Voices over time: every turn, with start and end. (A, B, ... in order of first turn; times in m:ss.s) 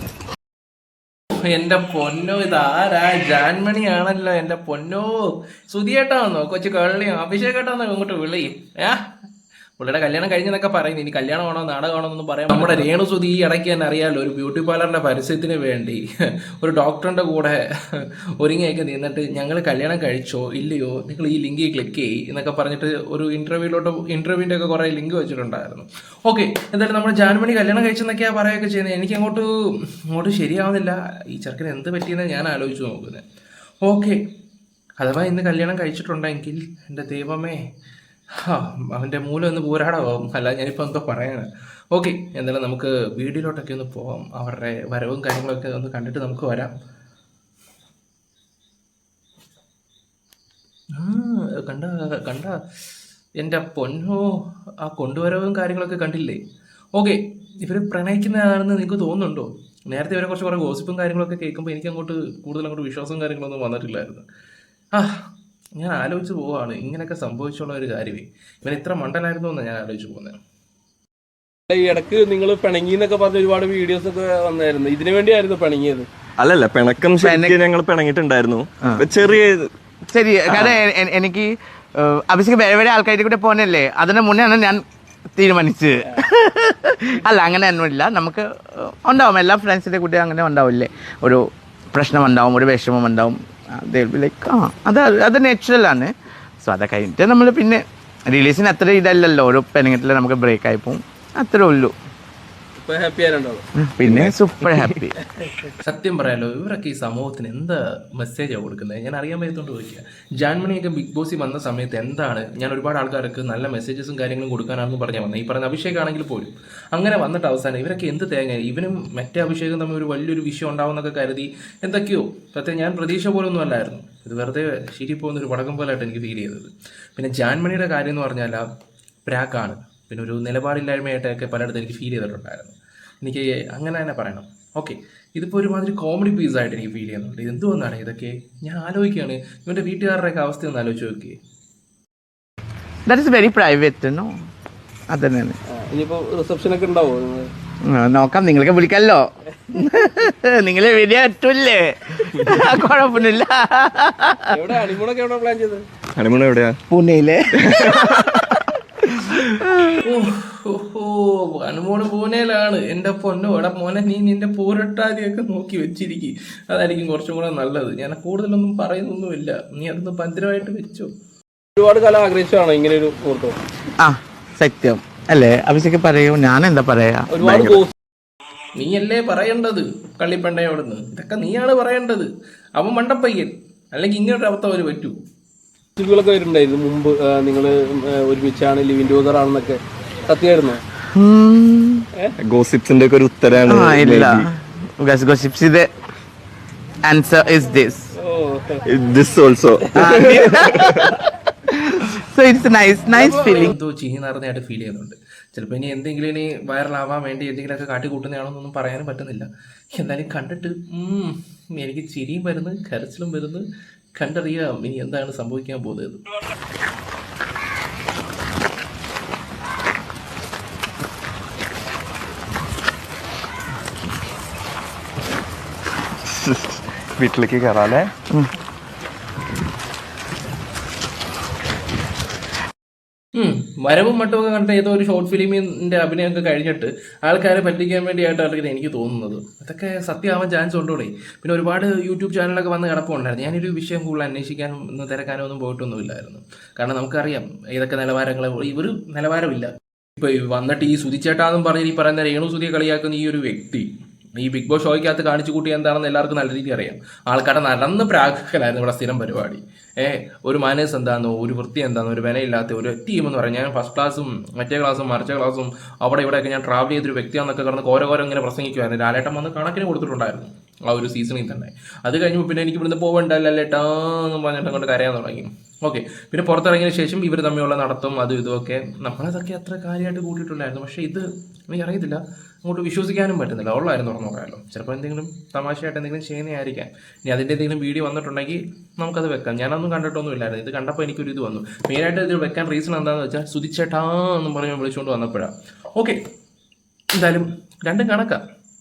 0:01.4-0:09.1 A
0:09.8-0:16.0 A
0:16.6-0:29.5 A
0:30.1-0:33.2 A
0:33.8-0:34.2 A
0:35.0-0:37.6 A
0:38.4-0:46.7 A
0:51.0-0:52.6 A
0:53.4-0:56.4 A
0:57.0-1:04.2 A
1:04.9-1:05.2 A
1:05.8-1:10.4 A
1:11.7-1:16.1 B
1:16.4-1:19.7 C
1:17.2-1:17.6 D
1:20.1-1:24.8 D
1:20.5-1:20.8 C
1:25.4-1:42.0 D
1:42.8-1:43.6 B
1:43.8-1:45.1 D
1:45.8-2:08.6 A
2:09.2-2:21.4 A
2:23.1-2:24.3 D
2:25.1-2:25.6 D
2:25.7-2:27.5 B
2:27.8-2:34.5 D
2:34.5-2:35.8 B
2:36.2-2:36.8 C
2:36.9-2:40.0 D
2:37.6-2:38.5 C
2:40.0-2:51.1 A
2:51.8-2:53.6 B
2:54.0-2:57.8 D
2:57.3-2:57.9 B
2:58.8-3:05.2 A
3:06.0-3:10.8 B
3:11.1-3:12.0 D
3:12.4-3:14.5 C
3:13.7-3:15.9 D
3:17.1-3:18.1 D
3:18.2-3:18.8 B
3:18.9-3:21.1 C
3:19.9-3:21.1 D
3:21.7-3:23.7 D
3:23.1-3:33.6 A
3:34.2-3:36.2 A
3:46.3-3:48.1 C
3:53.3-4:56.2 A
4:57.1-4:58.4 A